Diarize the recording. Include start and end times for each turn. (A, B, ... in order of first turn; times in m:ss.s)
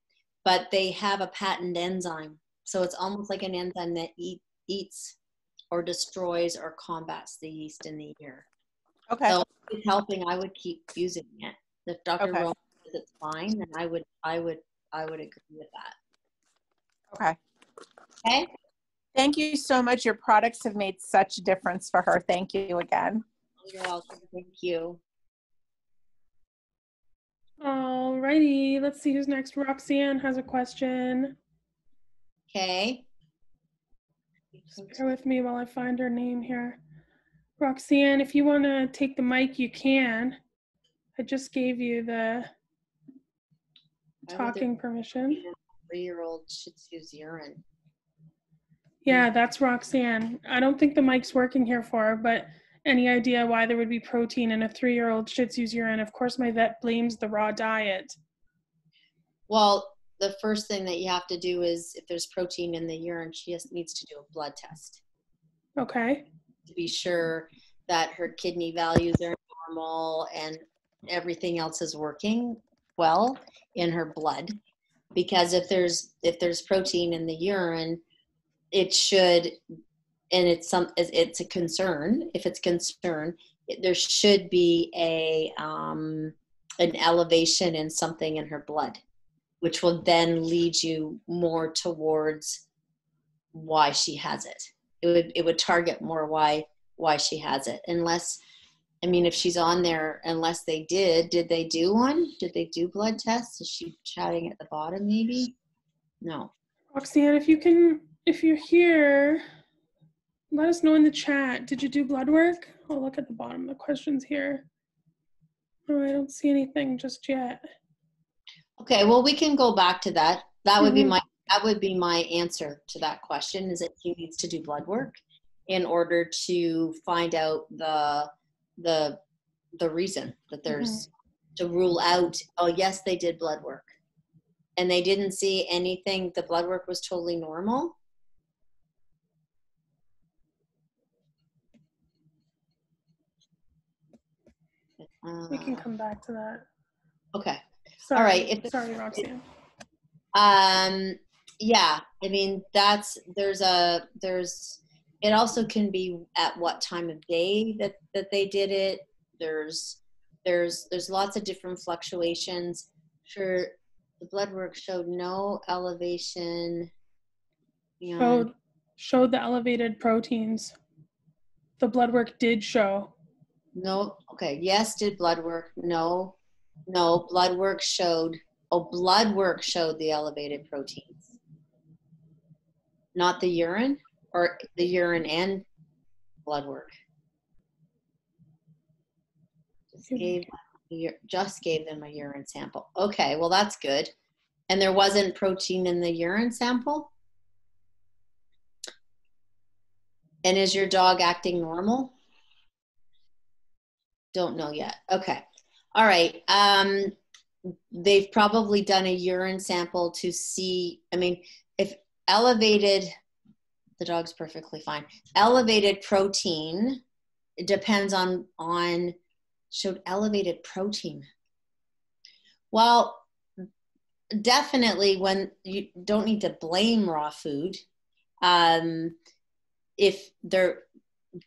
0:00.4-0:05.2 A
0:05.7-0:08.5 A
0:09.1-0:09.4 B
0:09.3-0:16.0 A
0:12.2-0:12.4 B
0:17.1-0:17.4 B
0:18.2-0:18.5 A
0:19.2-0:23.2 B
0:23.6-0:25.0 A
0:27.6-0:31.4 C
0:32.5-0:33.1 A
0:34.8-0:36.8 C
0:37.6-0:40.4 C
0:41.2-0:42.5 C
0:44.3-0:44.7 A
0:44.3-0:45.4 C
0:45.3-0:47.6 A
0:49.0-0:58.2 C
0:59.5-1:05.0 A
1:05.8-1:06.2 C
1:06.7-1:14.6 A
1:15.2-1:18.0 A
1:18.7-1:19.6 A
1:20.3-1:29.0 A
1:29.6-1:32.6 A
1:33.5-1:38.4 A
1:39.0-1:45.6 A
1:46.2-1:46.5 A
1:46.9-1:49.4 C
1:50.5-1:54.6 C
1:55.9-1:57.7 C
1:58.8-2:09.2 A
2:00.8-2:01.1 C
2:09.8-2:13.9 A
2:10.7-2:11.0 C
2:14.8-2:18.0 A
2:25.0-2:25.8 A
2:25.5-2:26.6 C
2:27.3-2:27.6 A
2:28.1-2:29.4 C
2:28.1-2:29.2 A
2:30.3-2:46.9 A
2:48.0-2:48.5 A
2:48.2-2:50.8 C
2:51.8-2:53.1 C
2:53.8-2:56.4 A
2:56.9-3:01.4 A
3:03.2-3:05.6 A
3:06.4-3:06.9 A
3:10.1-3:14.1 A
3:14.7-3:17.1 A
3:20.4-3:22.1 A
3:24.3-3:27.2 A
3:27.9-3:33.1 A
3:34.0-3:37.0 A
3:37.6-3:39.2 A
3:39.7-3:41.3 A
3:42.7-3:43.3 A
3:44.3-3:47.8 A
3:48.4-3:49.2 A
3:50.0-3:50.8 A